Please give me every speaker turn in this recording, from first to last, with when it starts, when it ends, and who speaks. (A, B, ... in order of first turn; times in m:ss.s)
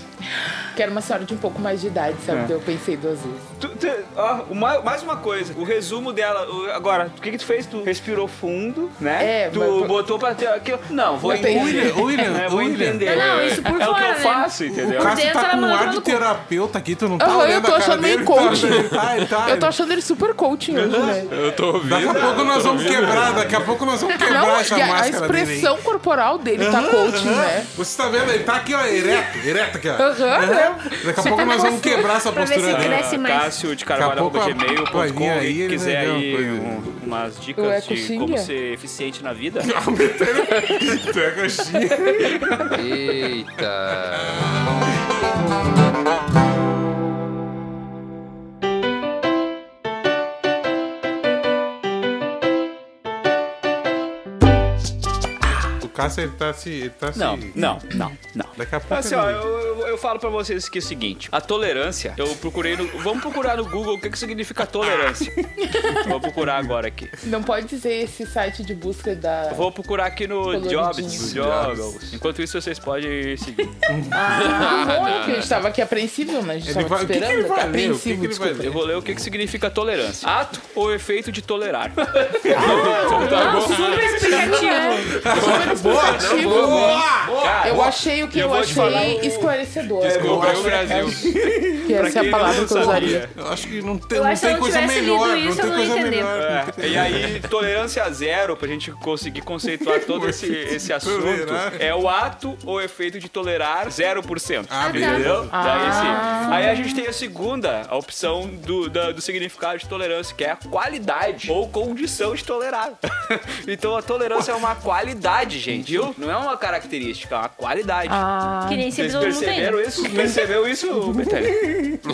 0:00.7-0:03.5 A
0:03.6-0:15.2 B
0:09.2-0:10.0 A
0:11.2-0:12.1 A
0:11.3-0:13.0 C
0:13.1-0:16.2 D
0:13.1-0:13.8 E
0:14.7-0:19.7 C
0:17.2-0:21.3 A
0:20.8-0:23.6 E
0:21.8-0:25.8 C
0:22.0-0:23.5 B
0:24.2-0:27.7 A
0:26.6-0:33.1 C
0:30.0-0:30.9 A
0:31.2-0:33.6 D
0:32.6-0:39.7 B
0:33.9-0:36.9 C
0:37.6-0:38.5 A
0:39.6-0:43.0 C
0:42.7-0:44.4 E
0:44.1-0:44.5 C
0:55.8-0:57.7 C
0:57.1-1:07.1 B
0:58.6-0:59.4 C
1:05.7-1:06.0 A
1:07.2-1:09.7 A
1:09.5-1:13.8 B
1:10.5-1:11.4 A
1:11.2-1:11.7 C
1:11.3-1:11.8 E
1:13.9-1:14.3 C
1:14.1-1:18.8 A
1:14.3-1:15.5 E
1:15.0-1:15.5 B
1:16.6-1:19.3 C
1:18.6-1:25.2 B
1:22.4-1:27.8 C
1:22.5-1:24.1 E
1:22.6-1:25.2 D
1:24.7-1:31.3 A
1:25.3-1:25.6 E
1:25.9-1:33.4 B
1:26.2-1:26.9 E
1:28.7-1:29.2 D
1:30.0-1:31.2 E
1:30.1-1:37.4 C
1:31.8-1:33.2 A
1:34.1-1:36.3 D
1:36.4-1:58.2 B
1:39.8-1:41.8 C
1:44.7-1:46.4 C
1:44.8-1:47.0 D
1:45.5-1:46.7 A
1:58.1-1:59.8 D
1:58.8-2:02.0 B
2:00.1-2:00.4 C